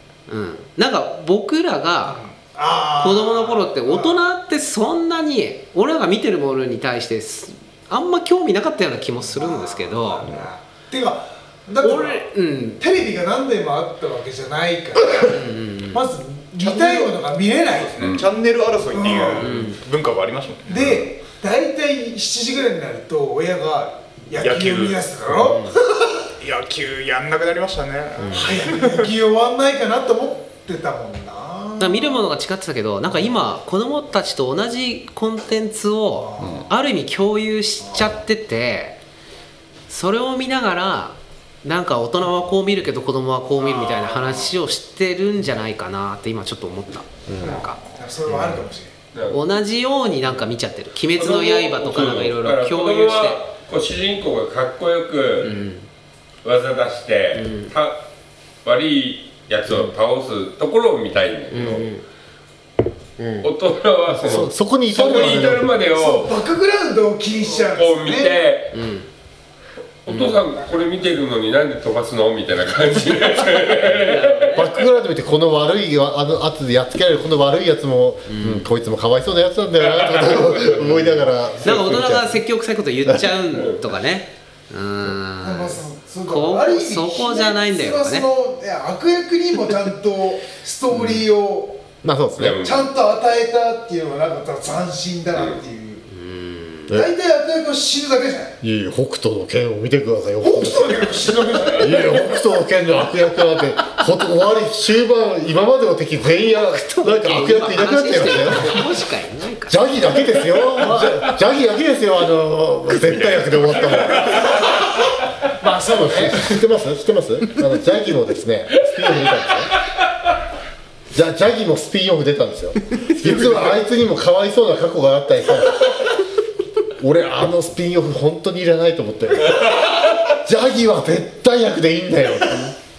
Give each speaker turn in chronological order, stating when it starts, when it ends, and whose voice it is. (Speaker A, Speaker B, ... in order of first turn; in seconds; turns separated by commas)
Speaker A: 0.3-2.2, Speaker B: 2.1-4.2, Speaker A: 3.0-10.3, Speaker B: 9.2-12.2, Speaker A: 11.8-12.8, Speaker B: 12.8-18.1, Speaker A: 15.2-16.0, Speaker C: 16.6-17.1, Speaker C: 17.9-21.1, Speaker D: 18.0-18.3, Speaker B: 18.9-19.6, Speaker A: 19.3-19.8, Speaker B: 20.7-25.7, Speaker C: 24.4-25.1, Speaker A: 25.4-25.8, Speaker C: 26.4-29.1, Speaker A: 28.2-28.6, Speaker B: 28.3-32.3, Speaker A: 31.8-39.0, Speaker B: 36.1-36.6, Speaker E: 36.4-36.6, Speaker A: 39.9-47.8, Speaker B: 43.5-44.5, Speaker E: 47.3-47.6, Speaker B: 47.4-48.9, Speaker D: 49.1-49.4, Speaker A: 49.3-53.4, Speaker D: 51.1-55.5, Speaker A: 55.4-55.9, Speaker D: 56.4-58.1, Speaker A: 57.3-57.7, Speaker D: 58.6-61.9, Speaker A: 61.5-62.0, Speaker A: 63.2-63.5, Speaker D: 63.4-66.4, Speaker E: 64.1-65.7, Speaker B: 65.3-68.4, Speaker D: 67.5-68.7, Speaker A: 68.7-69.1, Speaker D: 70.0-74.1, Speaker A: 70.1-70.5, Speaker A: 73.8-74.7, Speaker E: 74.5-82.4, Speaker A: 78.3-78.7, Speaker D: 80.2-81.2, Speaker A: 81.6-88.3, Speaker E: 83.0-83.3, Speaker B: 85.4-91.8, Speaker E: 92.0-92.6, Speaker D: 92.4-92.9, Speaker B: 92.6-96.0, Speaker D: 95.3-95.6, Speaker A: 96.1-96.9, Speaker B: 96.9-98.6, Speaker E: 98.6-108.9, Speaker B: 100.4-102.2, Speaker A: 106.5-109.8, Speaker E: 109.7-114.5, Speaker A: 110.8-111.2, Speaker D: 113.1-114.5, Speaker B: 115.6-116.6, Speaker E: 115.9-119.7, Speaker E: 121.1-126.0, Speaker E: 127.0-132.7